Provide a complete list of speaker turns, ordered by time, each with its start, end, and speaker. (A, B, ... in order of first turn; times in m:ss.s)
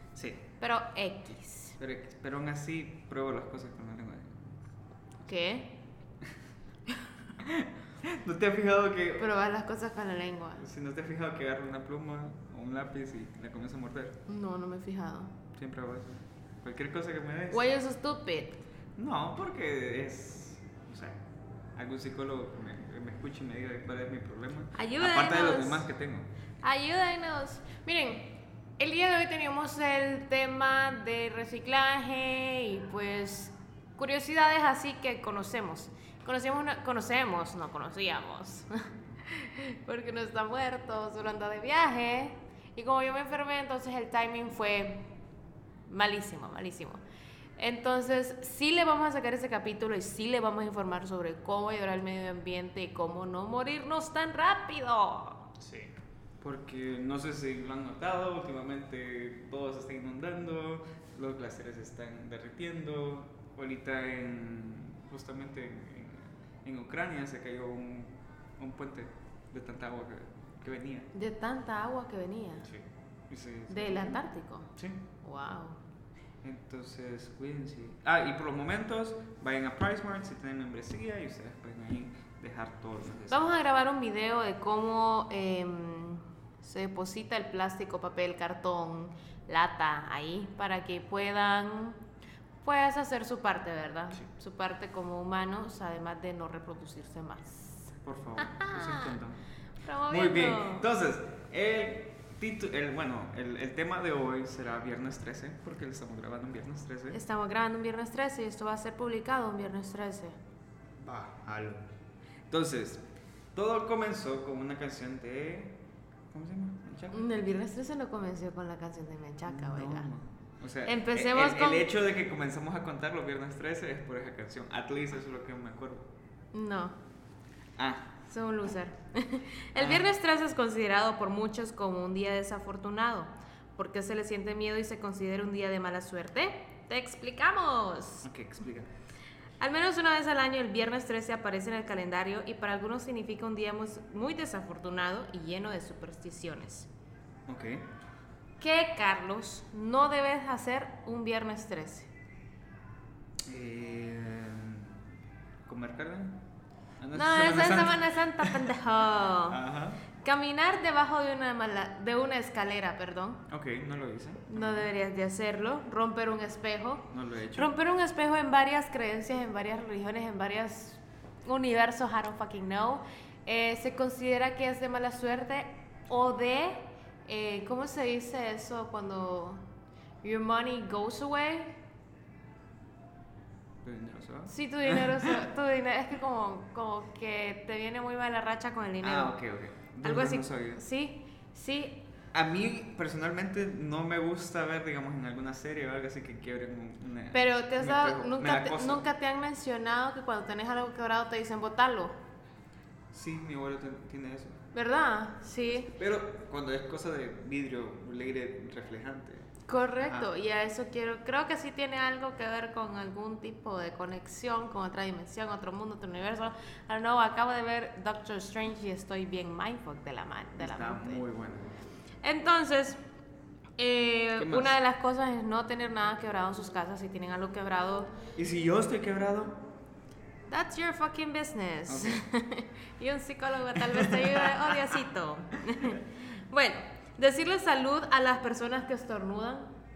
0:00.2-0:00.4 A
0:00.6-0:01.8 B
0:01.8-0:04.6 A
0:05.3-0:05.8 B
0:07.4-0:09.3 A
0:09.2-0:10.6 B
0:10.6-0:14.2 A
0:14.3-0:15.4 B
0:15.6-0:17.7 A
0:17.5-0:18.6 B
0:19.0-0:21.2 A
0:21.8-0:26.3 A
0:24.8-0:25.9 B
0:26.6-0:45.1 B
0:45.9-0:47.0 B
0:47.6-0:55.5 B
0:55.6-1:11.1 A
1:11.1-1:12.7 B
1:12.7-1:14.2 A
1:13.7-1:15.8 B
1:14.8-1:15.0 A
1:16.4-1:23.5 A
1:23.3-1:32.0 B
1:32.6-1:39.2 B
1:38.0-1:39.4 A
1:39.8-1:40.9 B
1:40.1-1:47.2 A
1:47.1-1:50.4 B
1:51.0-1:51.8 A
1:52.5-1:55.8 A
1:56.3-1:57.2 A
1:57.1-2:00.1 B
1:59.5-2:06.1 A
2:00.8-2:01.9 B
2:06.5-2:07.0 B
2:07.8-2:08.1 A
2:08.3-2:18.3 B
2:09.8-2:10.1 A
2:18.2-2:18.9 A
2:19.6-2:26.9 B
2:27.5-2:27.9 A
2:28.6-2:32.1 B
2:33.4-2:35.0 A
2:35.7-2:36.4 A
2:37.0-2:38.7 A
2:37.1-2:39.6 B
2:39.5-2:40.0 A
2:40.2-2:43.4 B
2:43.5-2:44.9 A
2:44.5-2:59.6 B
2:47.1-2:47.7 A
3:00.2-3:01.8 B
3:03.8-3:05.5 A
3:04.5-3:09.4 B
3:09.0-3:10.8 A
3:10.0-3:12.0 B
3:12.3-3:19.0 A
3:17.3-3:22.2 B
3:23.1-3:24.6 A
3:24.7-3:25.9 B
3:25.8-3:30.3 A
3:29.7-3:41.2 B
3:40.6-3:41.7 A
3:42.2-3:43.0 B
3:43.8-3:48.1 B
3:44.4-3:44.8 A
3:48.4-3:49.6 A
3:50.5-3:59.7 B
3:51.9-3:52.2 A
3:53.7-3:55.0 A